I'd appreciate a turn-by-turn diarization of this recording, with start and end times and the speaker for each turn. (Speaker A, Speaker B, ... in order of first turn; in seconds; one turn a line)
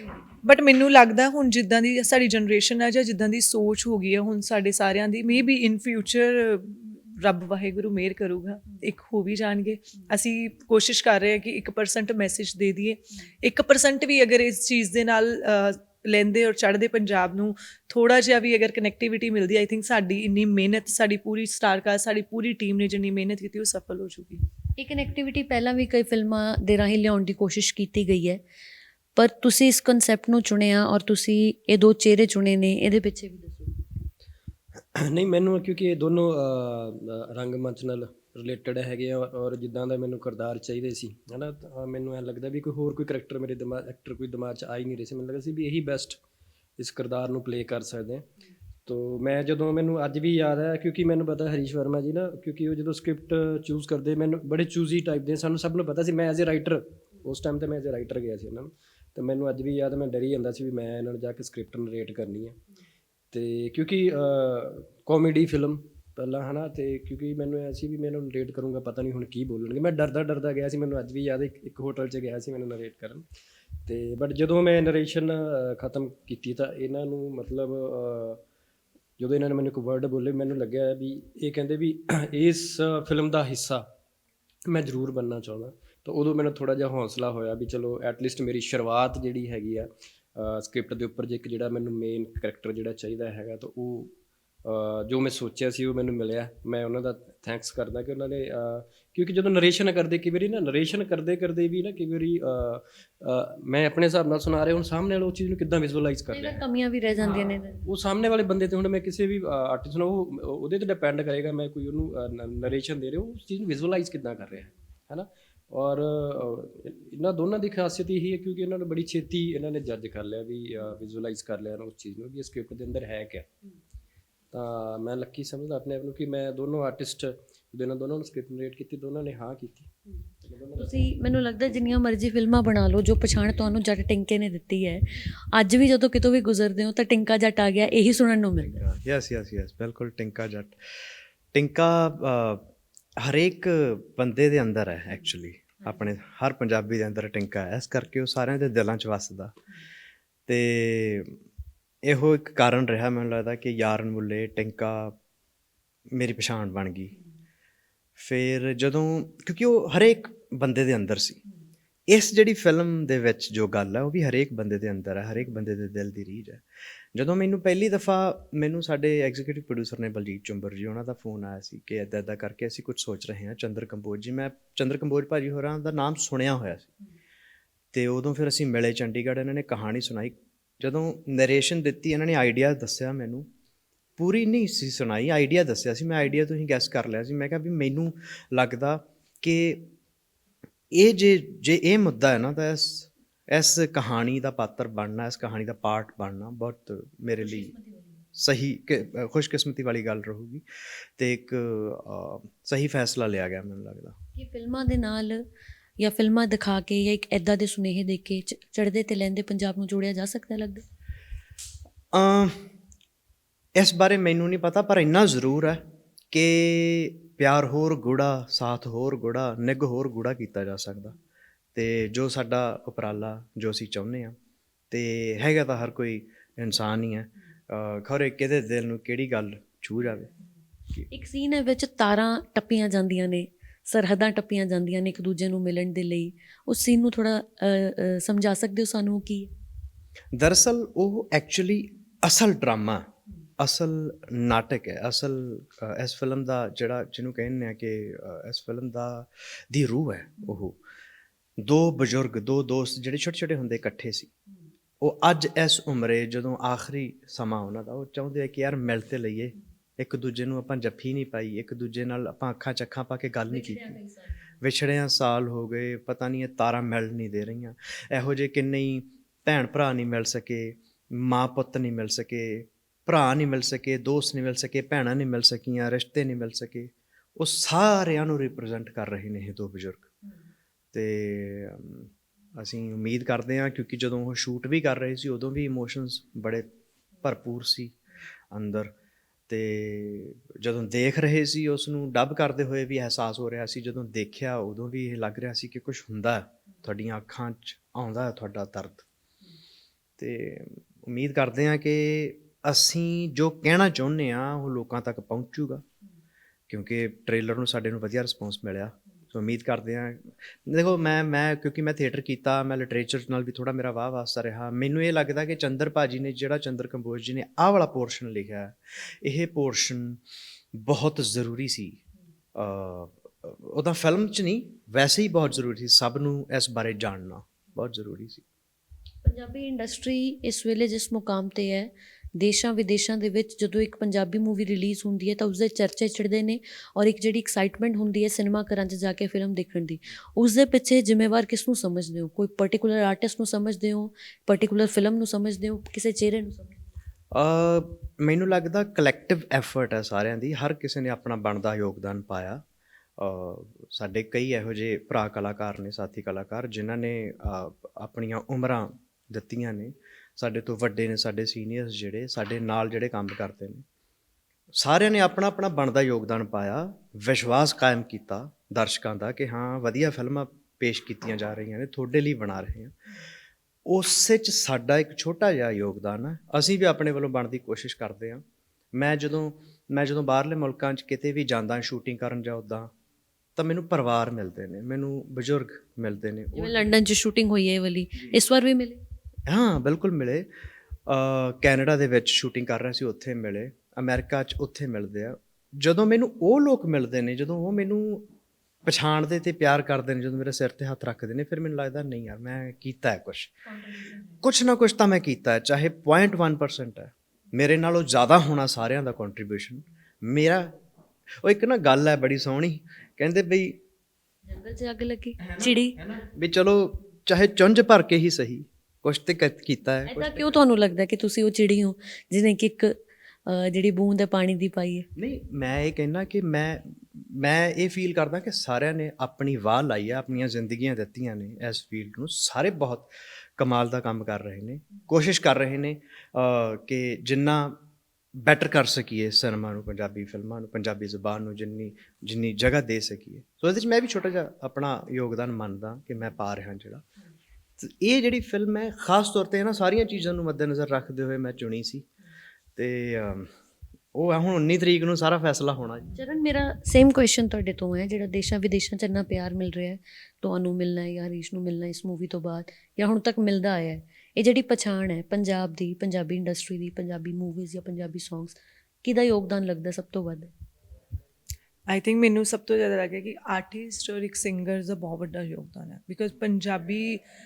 Speaker A: 0.4-24.4
Speaker B: 24.8-28.4
Speaker B: 29.2-33.8
Speaker C: 35.0-46.2
Speaker C: 46.8-48.3
Speaker C: 48.9-62.6
Speaker C: 63.3-73.2
Speaker C: 73.9-78.4
Speaker C: 79.2-83.8
Speaker C: 84.7-94.1
Speaker C: 94.6-106.6
Speaker B: 106.3-107.8
Speaker C: 107.4-123.5
Speaker C: 124.5-129.9
Speaker C: 130.4-130.9
Speaker B: 130.8-138.8
Speaker D: 138.6-140.8
Speaker D: 141.5-149.6
Speaker D: 150.5-151.4
Speaker D: 152.1-155.2
Speaker D: 156.1-157.1
Speaker D: 158.2-161.4
Speaker D: 162.1-166.6
Speaker D: 167.2-176.9
Speaker D: 177.9-183.5
Speaker D: 184.2-189.9
Speaker D: 190.9-197.7
Speaker B: 197.7-198.1
Speaker D: 198.4-200.6
Speaker D: 201.2-204.2
Speaker B: 204.4-205.4
Speaker B: 206.0-210.8
Speaker D: 212.1-212.6
Speaker D: 213.8-221.2
Speaker D: 221.8-224.3
Speaker D: 224.9-230.3
Speaker B: 231.1-239.5
Speaker D: 240.3-243.1
Speaker D: 243.6-250.8
Speaker D: 251.6-254.3
Speaker D: 255.0-264.0
Speaker B: 263.5-264.4
Speaker D: 264.6-280.1
Speaker D: 280.9-286.7
Speaker D: 287.2-288.0
Speaker D: 288.5-288.9
Speaker D: 289.5-299.1
Speaker D: 300.2-305.8
Speaker D: 306.7-320.2
Speaker D: 320.7-322.0
Speaker D: 322.6-328.4
Speaker B: 329.2-346.8
Speaker D: 347.3-352.6
Speaker D: 353.2-363.8
Speaker D: 364.8-372.9
Speaker D: 373.9-378.4
Speaker D: 378.9-382.9
Speaker D: 383.6-386.9
Speaker B: 386.6-389.0
Speaker D: 389.5-390.5
Speaker D: 391.1-398.3
Speaker D: 398.9-403.5
Speaker D: 404.4-410.7
Speaker D: 411.4-413.8
Speaker B: 414.4-416.0
Speaker D: 415.4-420.6
Speaker B: 420.1-425.1
Speaker D: 425.2-437.8
Speaker D: 438.4-447.0
Speaker D: 447.8-452.1
Speaker D: 452.8-453.5
Speaker D: 454.1-456.1
Speaker B: 456.2-470.5
Speaker A: 471.9-477.2